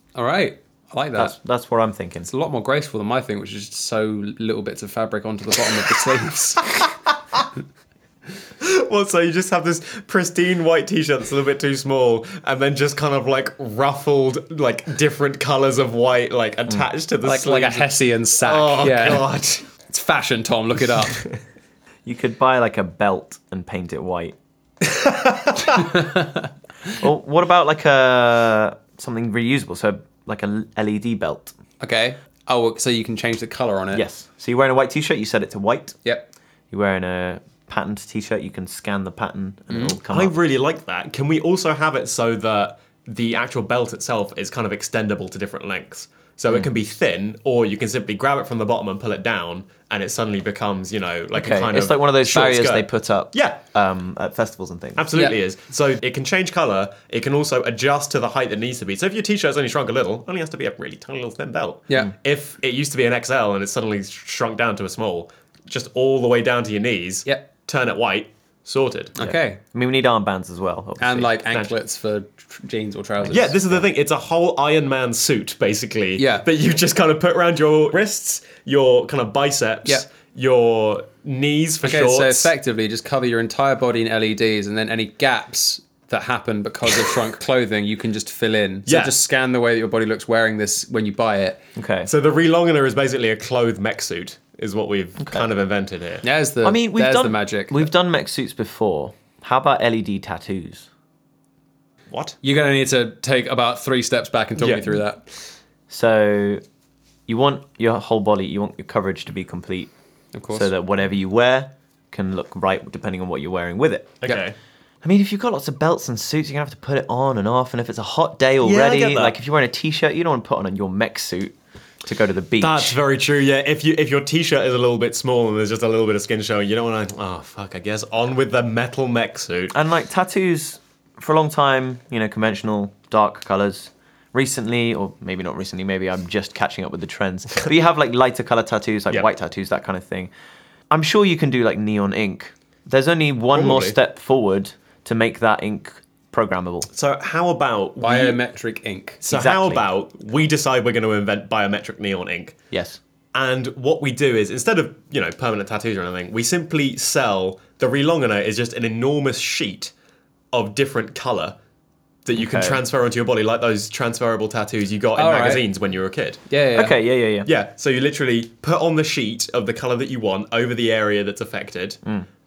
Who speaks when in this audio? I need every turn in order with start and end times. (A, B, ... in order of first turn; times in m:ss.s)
0:00.2-0:01.4 A
0:01.2-0:02.3 B
0:02.2-0:06.7 A
0:08.6-0:19.6 C
0:17.2-0:21.2 A
0:22.0-0:24.4 B
0:24.9-0:25.8 C
0:26.0-0:26.2 A
0:27.0-0:31.6 B
0:31.8-0:34.0 A
0:33.9-0:36.0 B
0:36.7-0:40.3 B
0:39.7-0:53.6 C
0:51.3-0:55.0 B
0:55.0-1:09.2 C
1:09.2-1:09.6 A
1:09.2-1:11.4 B
1:11.0-1:13.6 A
1:13.2-1:22.5 C
1:16.2-1:16.4 A
1:21.8-1:31.6 A
1:28.9-1:29.2 C
1:31.8-1:32.1 B
1:32.1-1:36.2 C
1:35.2-1:35.5 B
1:36.2-1:37.9 A
1:36.6-1:40.9 B
1:42.1-1:42.4 C
1:42.4-1:45.2 A
1:44.6-1:45.0 C
1:45.9-1:46.6 B
1:47.3-1:49.9 B
1:50.3-1:50.7 A
1:50.5-1:54.2 B
1:54.2-1:54.6 C
1:55.0-2:03.0 B
1:58.6-1:59.4 C
2:02.6-2:09.8 C
2:09.7-2:20.3 B
2:20.9-2:26.9 B
2:23.5-2:24.0 C
2:26.9-2:28.4 C
2:28.0-2:29.2 A
2:29.2-2:32.6 C
2:29.3-2:29.8 B
2:32.7-2:33.0 B
2:33.3-2:39.9 C
2:40.5-2:41.6 C
2:42.3-2:46.4 C
2:42.4-2:42.8 B
2:45.2-2:45.6 A
2:46.5-2:47.0 A
2:46.8-2:47.5 B
2:47.4-2:52.0 C